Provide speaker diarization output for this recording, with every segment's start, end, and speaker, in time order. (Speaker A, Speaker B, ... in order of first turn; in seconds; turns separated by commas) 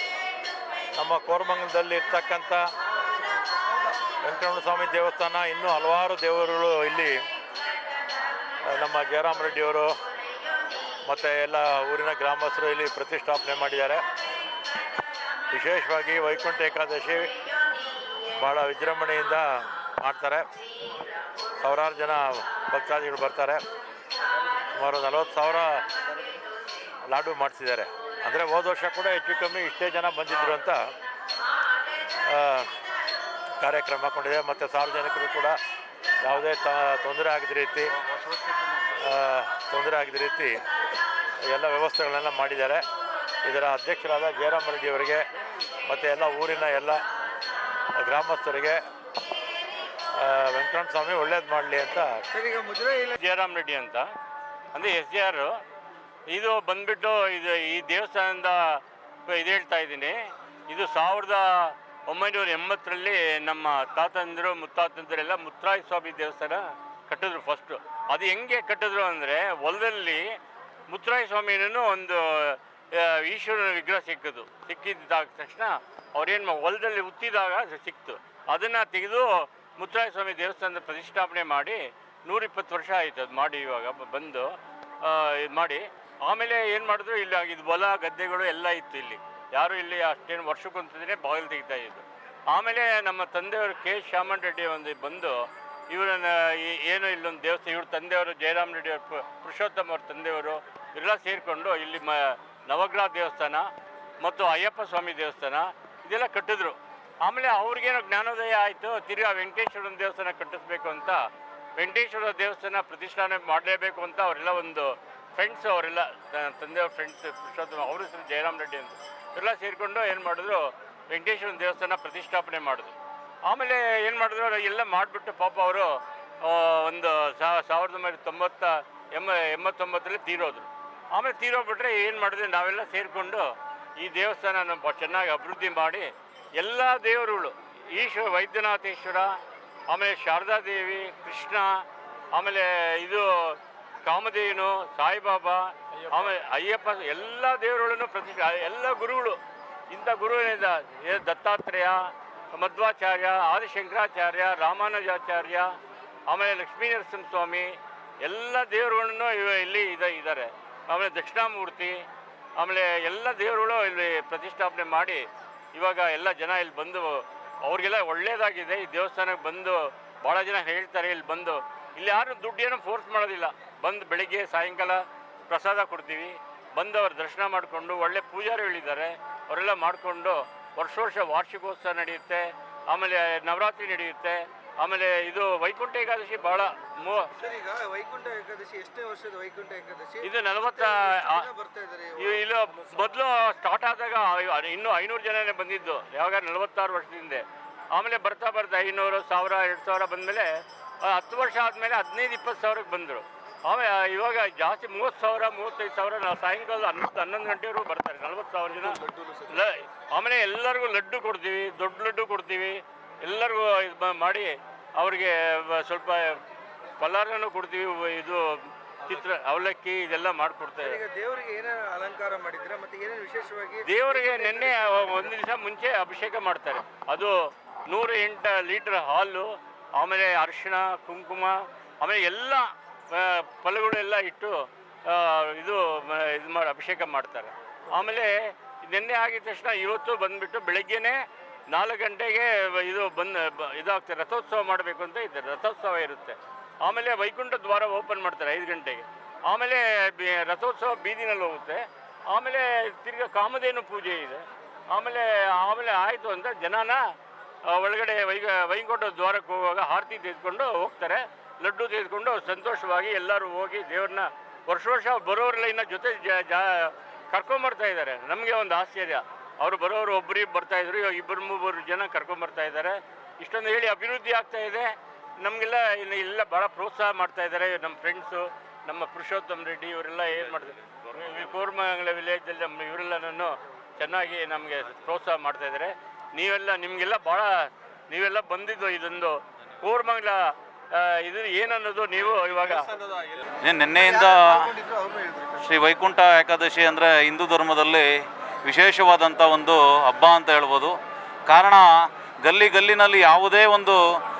Speaker A: 0.9-2.6, Speaker A: 4.2-7.2, Speaker A: 8.7-9.9, Speaker A: 11.0-14.0, Speaker A: 15.5-17.3, Speaker A: 18.4-19.4, Speaker A: 20.0-20.5, Speaker A: 21.6-23.6, Speaker A: 24.7-25.8, Speaker A: 27.1-30.8, Speaker A: 32.2-32.7, Speaker A: 33.6-35.5, Speaker A: 36.2-37.9, Speaker A: 39.0-40.6, Speaker A: 41.5-42.8, Speaker A: 43.4-45.2, Speaker A: 45.9-47.0, Speaker A: 48.0-48.8, Speaker A: 50.2-52.2, Speaker B: 52.3-53.2, Speaker C: 53.2-54.1, Speaker C: 54.7-55.6, Speaker C: 56.3-70.3, Speaker C: 70.9-84.5, Speaker C: 85.0-103.7, Speaker C: 104.2-122.9, Speaker C: 123.5-139.3, Speaker C: 139.9-155.7, Speaker C: 156.3-162.0, Speaker C: 162.6-187.3, Speaker B: 187.4-192.4, Speaker C: 190.2-191.5, Speaker C: 192.2-200.5, Speaker C: 201.0-216.4, Speaker B: 208.9-209.5, Speaker C: 217.0-221.0, Speaker B: 220.8-225.3, Speaker C: 223.8-234.6, Speaker C: 235.1-241.2, Speaker C: 241.7-257.0, Speaker C: 257.7-293.0, Speaker D: 293.6-294.7, Speaker B: 293.9-295.6, Speaker D: 295.6-298.1, Speaker D: 298.6-301.0, Speaker D: 301.5-301.9, Speaker D: 302.4-304.0